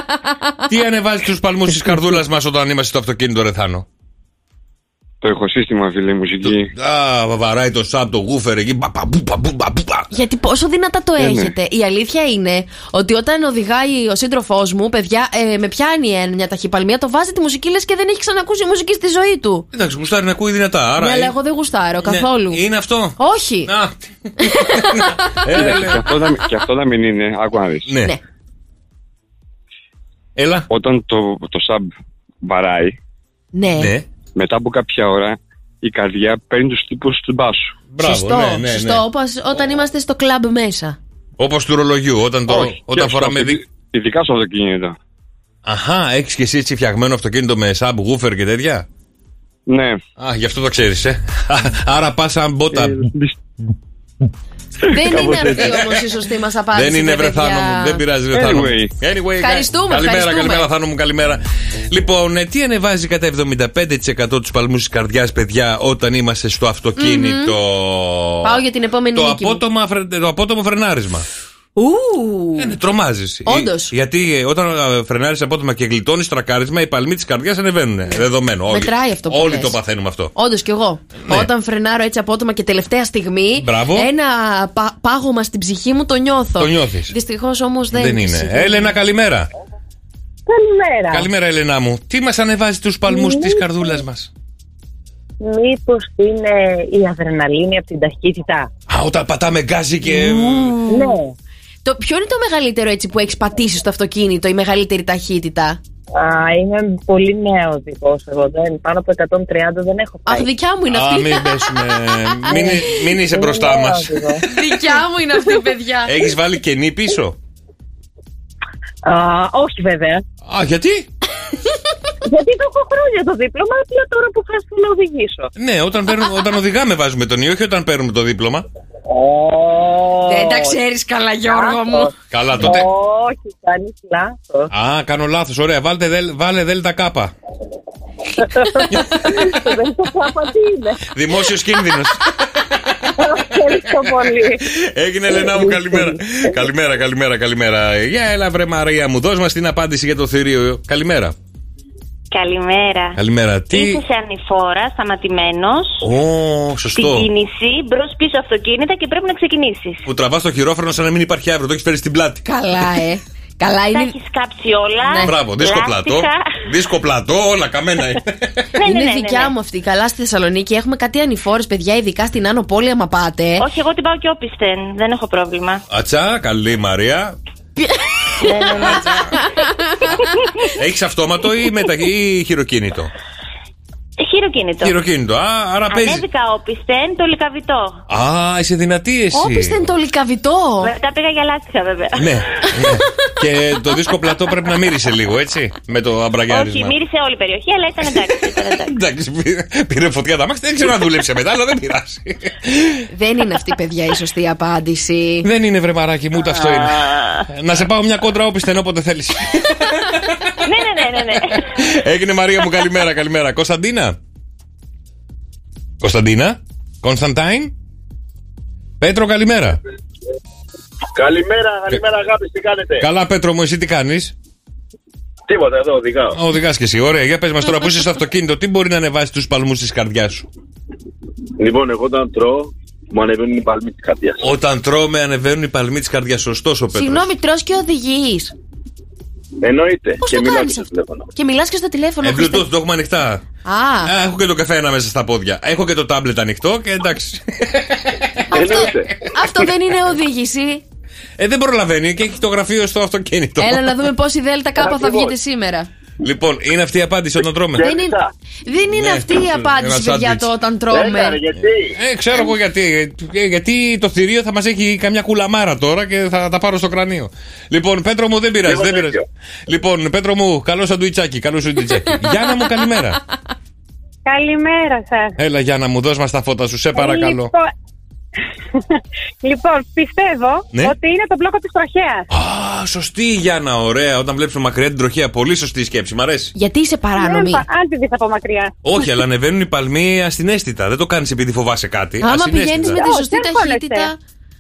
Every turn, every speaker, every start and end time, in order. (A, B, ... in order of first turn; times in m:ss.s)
0:00.1-0:00.5 A
0:00.7-0:03.9 B
0:05.2-0:06.7 C
0:06.4-0:10.1 B
0:10.1-0:19.7 A
0:11.2-0:11.5 C
0:19.7-0:21.4 B
0:21.0-0:22.6 A
0:22.0-0:26.3 B
0:23.2-0:23.7 A
0:24.4-0:25.8 A
0:25.5-0:27.9 C
0:27.9-0:28.1 B
0:30.4-0:30.7 B
0:30.7-0:31.9 C
0:32.4-0:32.9 C
0:33.5-0:33.9 A
0:33.8-0:34.1 B
0:34.4-0:37.7 C
0:37.9-0:39.0 B
0:38.0-0:41.0 A
0:41.4-0:43.6 B
0:42.5-0:45.0 C
0:45.6-0:48.9 B
0:49.7-0:50.0 C
0:50.2-0:53.1 B
0:52.9-0:53.4 C
0:54.9-0:58.0 A
0:55.1-0:55.5 C
0:55.2-0:56.1 B
0:56.7-1:08.6 B
0:58.3-0:58.9 C
0:59.4-1:00.7 A
1:07.0-1:07.5 A
1:08.4-1:09.6 A
1:09.1-1:11.3 B
1:11.8-1:12.7 A
1:12.6-1:20.3 B
1:13.4-1:13.9 A
1:18.1-1:19.8 A
1:20.4-1:29.0 A
1:21.2-1:21.5 B
1:23.6-1:24.1 B
1:26.6-1:27.1 B
1:27.9-1:29.5 B
1:30.5-1:31.3 D
1:31.1-1:34.3 B
1:33.2-1:33.7 D
1:35.4-1:38.7 D
1:38.9-1:40.8 B
1:40.0-1:41.2 A
1:40.9-1:41.3 D
1:41.8-1:45.8 A
1:46.1-1:50.5 D
1:50.3-1:52.8 A
1:50.9-1:54.2 B
1:52.5-1:54.4 D
1:54.4-1:56.2 A
1:56.1-1:57.4 B
1:59.0-2:00.2 D
2:00.5-2:01.1 B
2:03.5-2:05.5 D
2:05.6-2:08.7 B
2:09.2-2:10.8 D
2:10.3-2:12.1 A
2:11.5-2:14.7 D
2:12.3-2:12.9 B
2:14.7-2:17.3 B
2:18.9-2:19.7 B
2:21.1-2:31.4 B
2:23.8-2:24.1 D
2:32.3-2:33.2 E
2:33.1-2:34.0 B
2:33.7-2:36.0 E
2:36.0-2:37.3 B
2:37.0-2:40.1 E
2:40.1-2:42.5 B
2:42.5-2:44.2 A
2:43.9-2:46.4 E
2:45.0-2:45.3 A
2:45.2-2:48.7 B
2:48.8-2:49.5 E
2:48.8-2:53.6 A
2:53.6-2:55.8 E
2:55.9-2:57.4 B
2:58.4-3:00.2 A
2:58.6-2:59.4 B
3:00.8-3:03.1 B
3:04.2-3:05.0 E
3:04.8-3:06.2 B
3:05.9-3:08.0 E
3:08.1-3:09.8 B
3:09.3-3:10.9 A
3:10.8-3:12.3 E
3:12.2-3:17.0 B
3:16.5-3:18.9 E
3:18.8-3:23.0 B
3:23.1-3:25.5 A
3:25.4-3:34.2 B
3:30.6-3:31.8 E
3:36.0-3:37.7 B
3:39.0-3:39.8 B
3:41.1-3:43.0 F
3:43.0-3:44.3 B
3:45.5-3:46.4 F
3:46.3-3:50.5 B
3:51.6-3:54.4 F
3:54.4-3:57.3 B
3:56.9-3:58.5 A
3:59.6-4:01.2 F
4:00.2-4:02.7 A
4:02.2-4:03.4 B
4:03.6-4:04.1 A
4:04.0-4:09.7 B
4:08.5-4:09.1 F
4:08.5-4:10.8 A
4:11.4-4:13.9 B
4:13.6-4:15.9 A
4:14.8-4:15.3 F
4:16.2-4:17.9 B
4:17.8-4:18.3 F
4:17.8-4:21.4 A
4:19.0-4:20.5 B
4:20.9-4:21.9 F
4:21.6-4:33.2 B
4:28.6-4:29.2 F
4:34.2-4:35.4 G
4:35.4-4:37.5 B
4:37.0-4:37.7 G
4:39.4-4:42.2 G
4:42.3-4:46.5 B
4:46.6-4:47.6 A
4:47.2-4:48.7 G
4:48.8-4:53.0 B
4:52.2-4:54.2 A
4:52.8-4:54.1 G